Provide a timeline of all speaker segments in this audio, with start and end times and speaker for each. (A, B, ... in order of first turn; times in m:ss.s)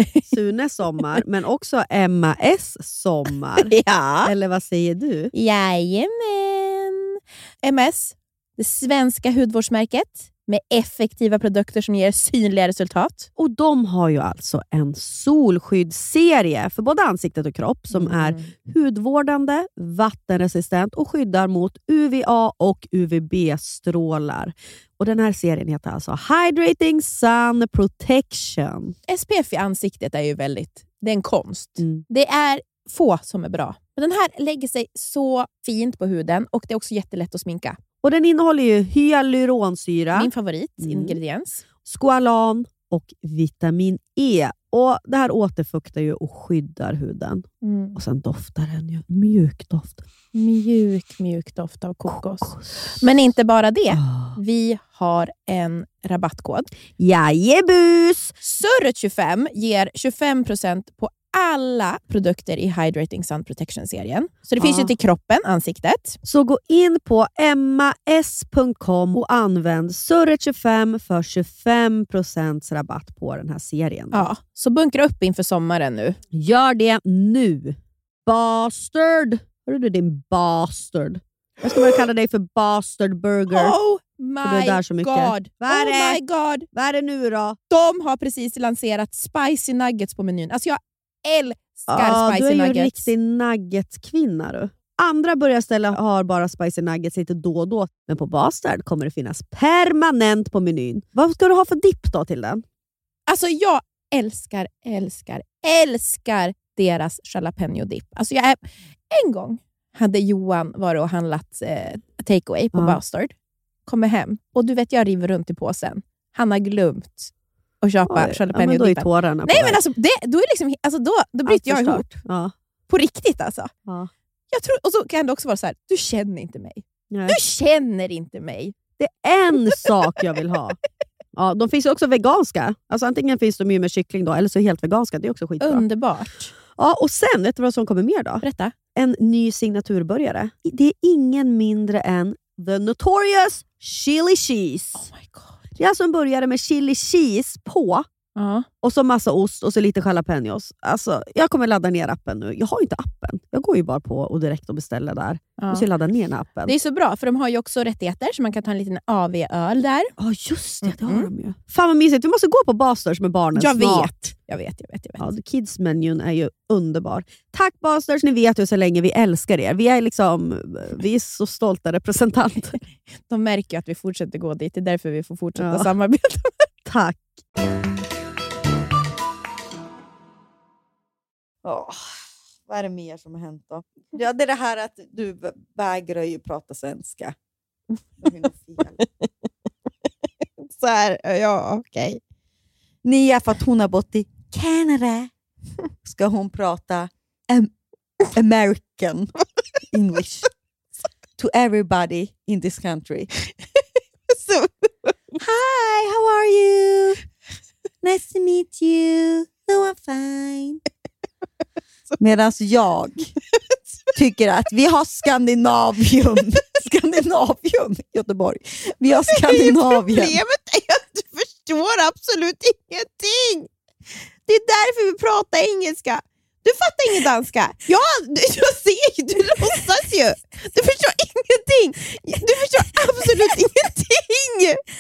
0:00.3-0:03.7 A
0:03.6-0:04.3 B
0:04.2-0:05.3 A
0:05.3-0:13.3 B
0:13.4-0:29.0 A
0:17.9-0:18.4 B
0:29.1-0:37.8 B
0:31.8-0:32.0 A
0:38.0-0:41.2 A
0:40.1-0:41.6 B
0:41.8-0:50.0 A
0:47.6-0:48.0 B
0:50.3-0:56.7 B
0:52.1-0:52.8 A
0:57.0-0:58.3 A
0:58.4-1:06.2 B
1:04.6-1:04.9 A
1:06.3-1:14.3 A
1:14.1-1:16.2 B
1:16.3-1:23.8 A
1:23.5-1:26.7 B
1:24.4-1:26.2 A
1:26.7-1:27.6 A
1:27.7-1:33.1 B
1:31.9-1:42.6 A
1:43.3-1:53.3 B
1:52.7-1:53.0 A
1:53.9-2:02.2 B
1:58.0-1:59.8 A
2:01.5-2:02.5 A
2:02.9-2:03.7 B
2:04.5-2:08.8 B
2:07.1-2:07.4 A
2:09.0-2:10.8 A
2:11.4-2:15.8 A
2:15.6-2:16.5 B
2:16.8-2:25.0 A
2:18.4-2:18.8 B
2:25.0-2:25.6 B
2:25.8-2:28.1 A
2:28.4-2:28.7 B
2:28.8-2:36.7 A
2:35.6-2:35.8 B
2:36.7-2:40.1 B
2:40.2-2:44.3 A
2:40.8-2:41.3 B
2:43.5-2:45.3 B
2:45.2-2:52.8 A
2:53.3-2:56.7 B
2:55.6-2:55.9 A
2:56.9-2:57.4 A
3:01.6-3:07.4 C
3:08.2-3:09.0 C
3:10.6-3:12.2 B
3:13.0-3:15.3 C
3:16.0-3:17.7 C
3:18.3-3:19.3 C
3:19.9-3:20.5 C
3:21.4-3:23.3 C
3:24.3-3:25.1 B
3:25.4-3:27.2 C
3:28.0-3:30.8 C
3:32.2-3:33.3 C
3:34.2-3:40.4 C
3:39.3-3:43.7 B
3:44.5-3:54.8 B